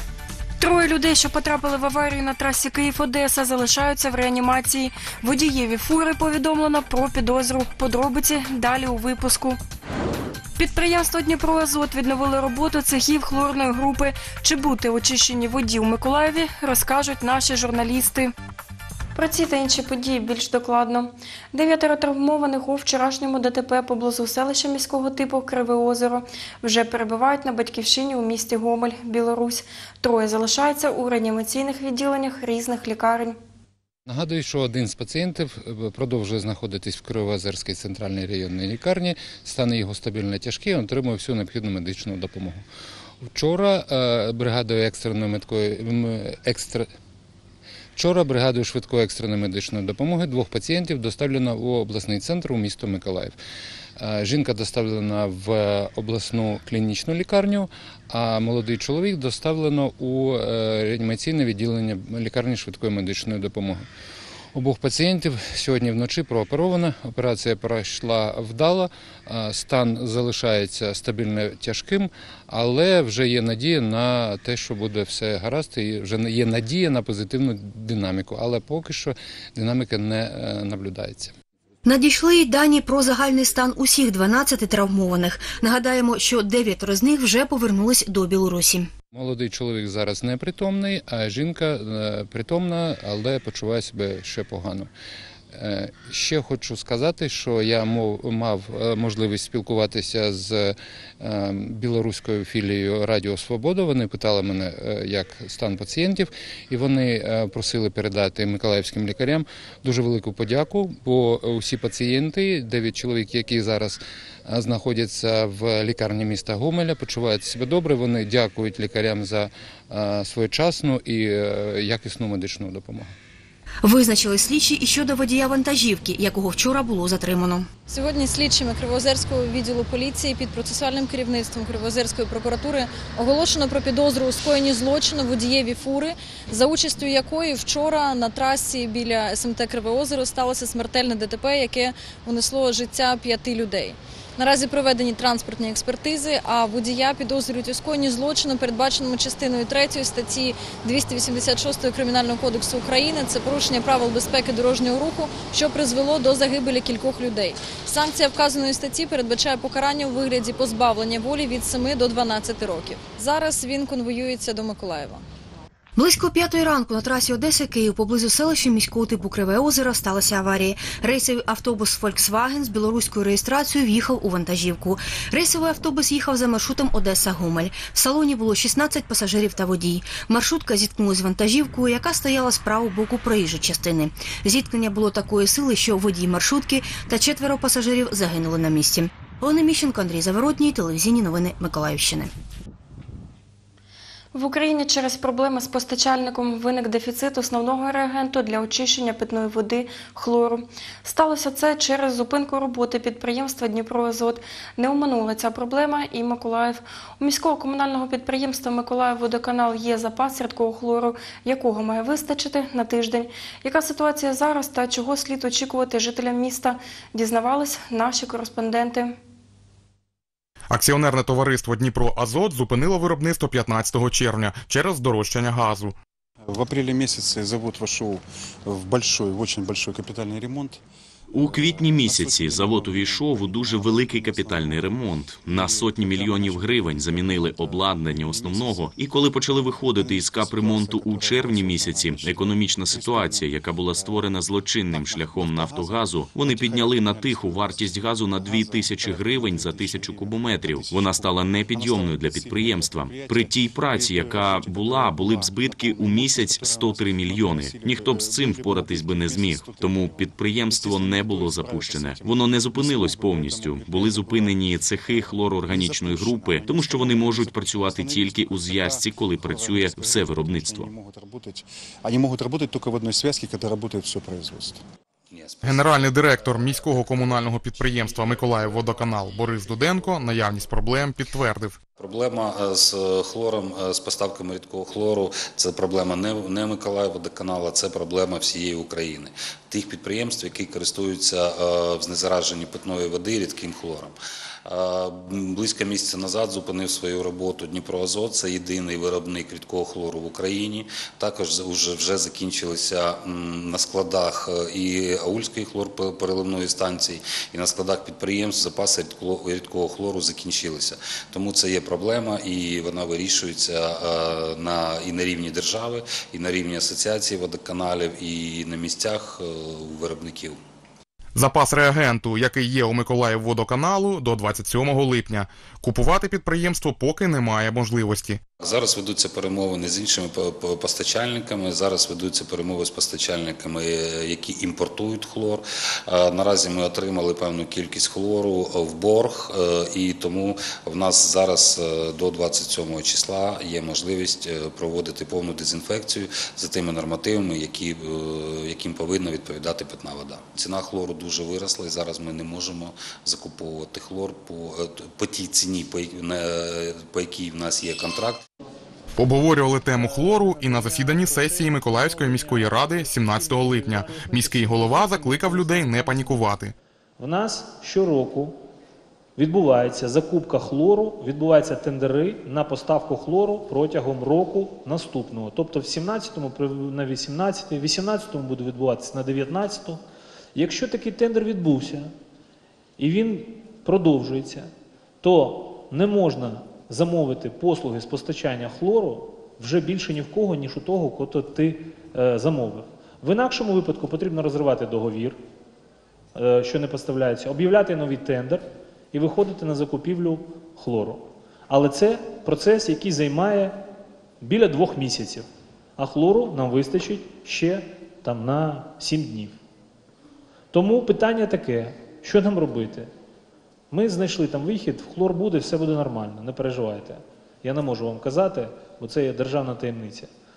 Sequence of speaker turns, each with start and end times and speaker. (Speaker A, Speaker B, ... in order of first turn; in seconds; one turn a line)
Speaker A: 0.6-9.6
Speaker A: 10.6-18.3
Speaker A: 19.1-33.4
Speaker B: 34.1-42.6
Speaker B: 43.2-46.9
Speaker B: 48.0-53.4
Speaker B: 54.0-63.9
Speaker B: 64.5-81.3
Speaker C: 81.8-88.9
Speaker B: 89.1-94.9
Speaker B: 95.5-123.1
Speaker C: 123.8-127.7
Speaker D: 127.9-165.2
Speaker C: 165.9-192.3
Speaker A: 194.3-219.2
Speaker E: 220.7-225.9
Speaker F: 226.4-230.8
Speaker G: 231.3-270.9
Speaker F: 231.7-234.5
Speaker F: 235.6-236.3
Speaker F: 238.5-238.9
Speaker F: 240.0-243.4
Speaker F: 245.1-245.9
Speaker F: 246.4-247.7
Speaker F: 248.6-250.3
Speaker F: 251.9-252.6
Speaker F: 253.1-262.2
Speaker F: 262.8-264.5
Speaker F: 265.8-267.4
Speaker F: 267.9-269.0
Speaker F: 269.5-274.8
Speaker H: 275.3-276.8
Speaker E: 275.6-281.8
Speaker H: 282.0-320.6
Speaker E: 321.4-328.4
Speaker H: 328.6-358.4
Speaker E: 359.2-366.7
Speaker I: 359.9-366.4
Speaker I: 367.2-368.6
Speaker I: 369.4-380.0
Speaker I: 380.6-382.1
Speaker I: 383.0-384.7
Speaker I: 385.2-395.4
Speaker I: 396.4-403.8
Speaker I: 404.4-409.6
Speaker I: 410.7-413.1
Speaker I: 413.9-420.3